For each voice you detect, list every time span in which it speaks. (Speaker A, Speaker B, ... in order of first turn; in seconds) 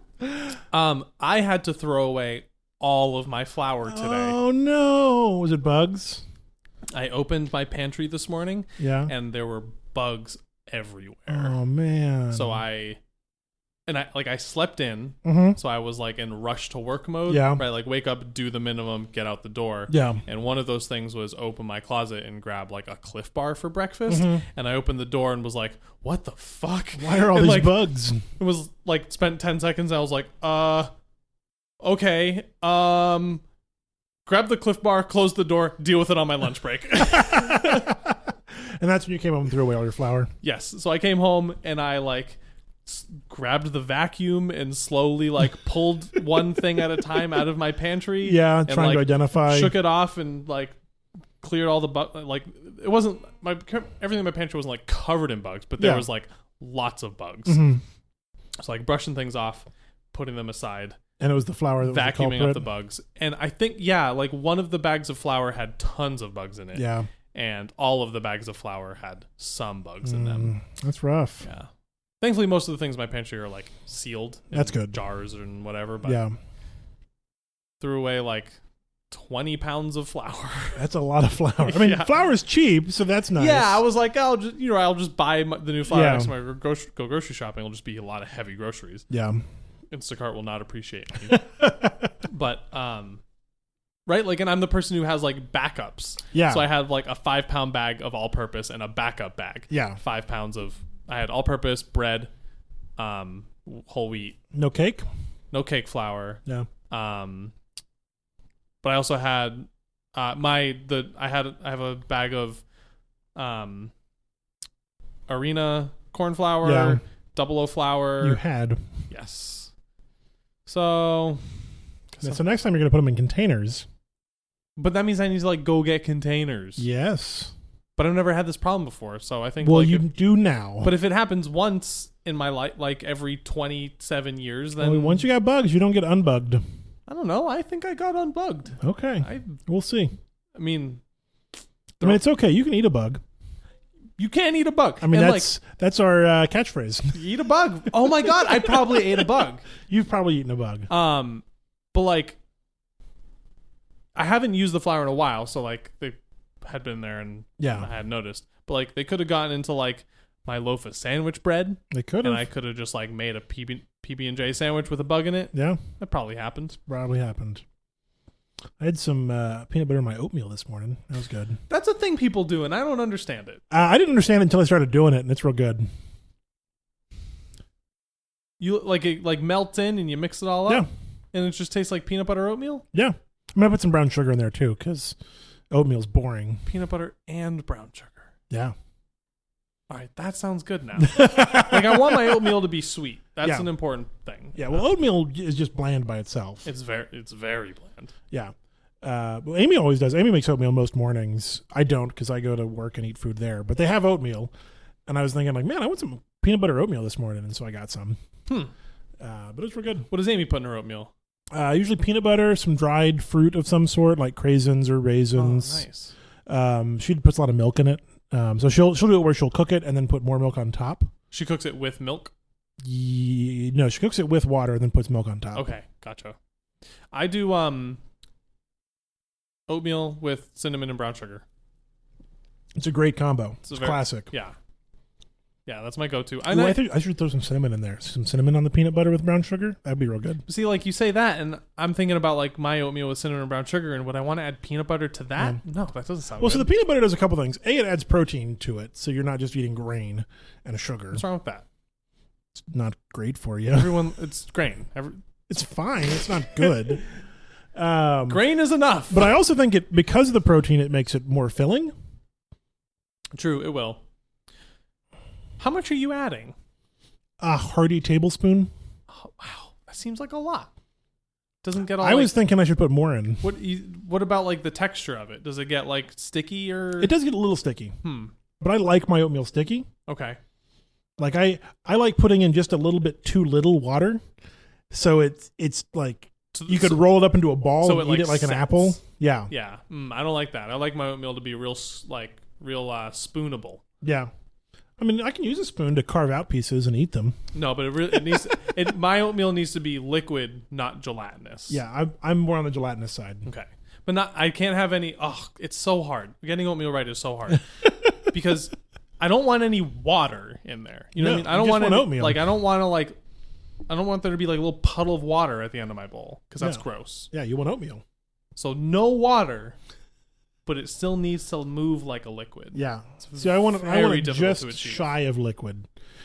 Speaker A: 0.7-4.4, 6.9-11.6, 12.3-13.0, 13.9-30.9, 31.8-33.4, 34.2-37.9, 40.4-50.8, 51.4-57.7, 58.6-61.0, 61.8-70.5, 71.4-71.7, 72.2-76.2, 77.8-78.6, 79.1-80.8, 81.6-82.1, 83.3-89.0, 89.9-91.5, 92.2-93.2, 94.1-102.3, 103.0-104.4, 105.5-107.5, 108.8-112.6, 113.3-113.9, 115.3-118.4, 119.1-119.7, 120.7-121.4, 122.1-122.4, 124.8-126.8, 128.0-130.1, 130.8-135.2, 137.1-139.6, 140.5-141.0, 144.2-145.5, 147.1-149.7, 150.9-152.4, 154.2-166.8, 171.7-173.6, 178.6-182.8, 186.6-188.3, 189.9-194.8, 196.6-198.1, 210.1-211.1, 215.3-216.1, 221.3-222.3, 225.5-226.3, 227.1-228.0, 229.7-231.4, 233.7-234.6, 235.7-236.8, 240.4-246.7, 251.1-251.6, 253.7-255.2, 258.3-259.3, 263.3-264.0, 265.6-266.5, 269.1-270.7, 271.6-272.4, 273.4-277.1, 278.0-278.3, 280.1-280.4, 286.5-287.0, 287.8-289.0, 289.5-293.8, 297.5-301.8, 303.4-307.6, 308.3-313.1, 313.9-317.3, 318.6-319.8, 320.6-325.0
Speaker B: 3.8-6.2, 8.8-9.1, 11.3-12.6, 15.2-15.6, 17.3-17.6, 19.9-20.2, 24.1-24.4, 26.9-28.2, 37.1-40.3, 48.2-49.8, 55.8-56.1, 57.5-57.8, 61.2-62.6, 66.7-67.1, 70.0-71.5, 74.5-75.0, 76.0-76.3, 80.8-83.8, 85.9-86.3, 89.1-89.4, 91.3-92.1, 96.3-96.7, 99.7-100.0, 104.5-105.0, 116.6-117.0, 118.2-118.8, 122.2-123.8, 126.8-127.5, 129.6-130.9, 134.8-136.6, 138.8-140.1, 142.0-143.2, 145.0-147.3, 148.1-149.3, 149.8-150.9, 157.6-157.9, 161.9-162.4, 165.5-165.8, 166.9-167.6, 168.8-171.6, 173.7-175.8, 182.9-185.2, 185.7-186.6, 191.0-192.5, 193.4-193.7, 194.5-196.7, 198.3-204.5, 205.1-208.2, 209.2-210.1, 211.5-215.8, 216.5-221.1, 222.8-225.7, 232.8-234.3, 236.5-240.4, 246.4-251.2, 252.6-254.0, 255.5-257.1, 257.7-258.4, 259.1-261.9, 267.4-268.7, 272.0-273.4, 277.0-277.9, 278.6-279.9, 281.2-284.2, 284.9-289.5, 294.0-294.3, 295.0-297.3, 301.7-303.5, 311.2-312.4, 316.6-318.0, 322.7-325.9